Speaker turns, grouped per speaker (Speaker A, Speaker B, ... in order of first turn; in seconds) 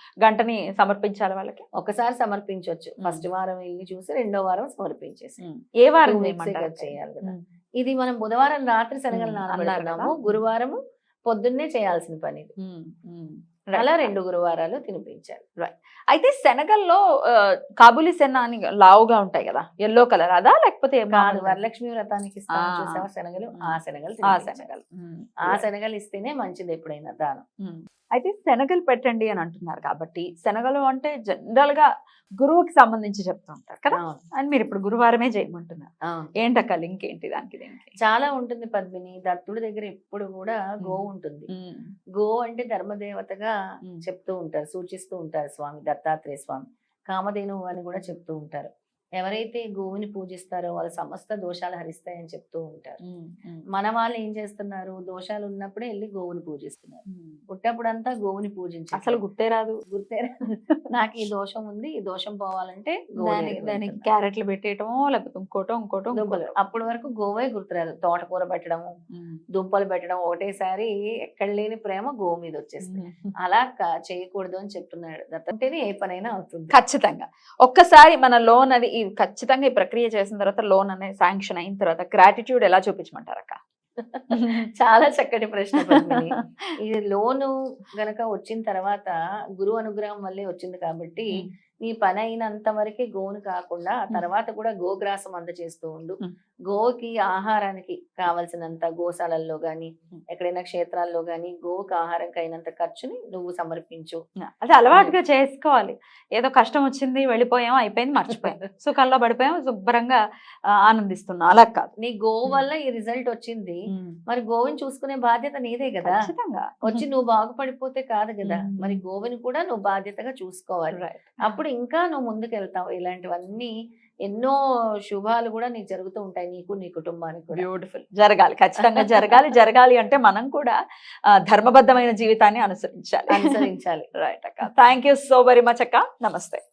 Speaker A: 0.2-1.6, 3.0-3.2, 5.4-7.4, 9.1-10.4, 12.6-14.1, 15.6-21.6, 22.5-25.6, 27.6-31.9, 32.4-35.9, 36.4-38.0, 41.5-41.9, 53.0-53.6, 57.1-57.4, 58.9-59.8, 63.2-66.5, 69.1-69.4, 72.8-73.3, 76.7-83.6, 84.3-84.7, 85.8-86.3, 104.5-110.2, 110.8-111.9, 113.9-114.2, 116.0-117.0, 118.4-119.0, 120.9-121.6, 127.5-130.8, 131.3-136.6
Speaker B: 1.8-5.4, 6.0-12.5, 13.7-15.4, 21.1-24.7, 25.4-27.4, 33.9-34.2, 38.0-41.5, 42.1-53.0, 53.7-59.2, 59.9-64.0, 66.1-68.9, 69.5-76.7, 84.0-104.2, 104.9-105.2, 108.3-108.6, 112.0-116.2, 116.8-123.7, 124.2-127.7, 129.0-129.4, 133.3-134.1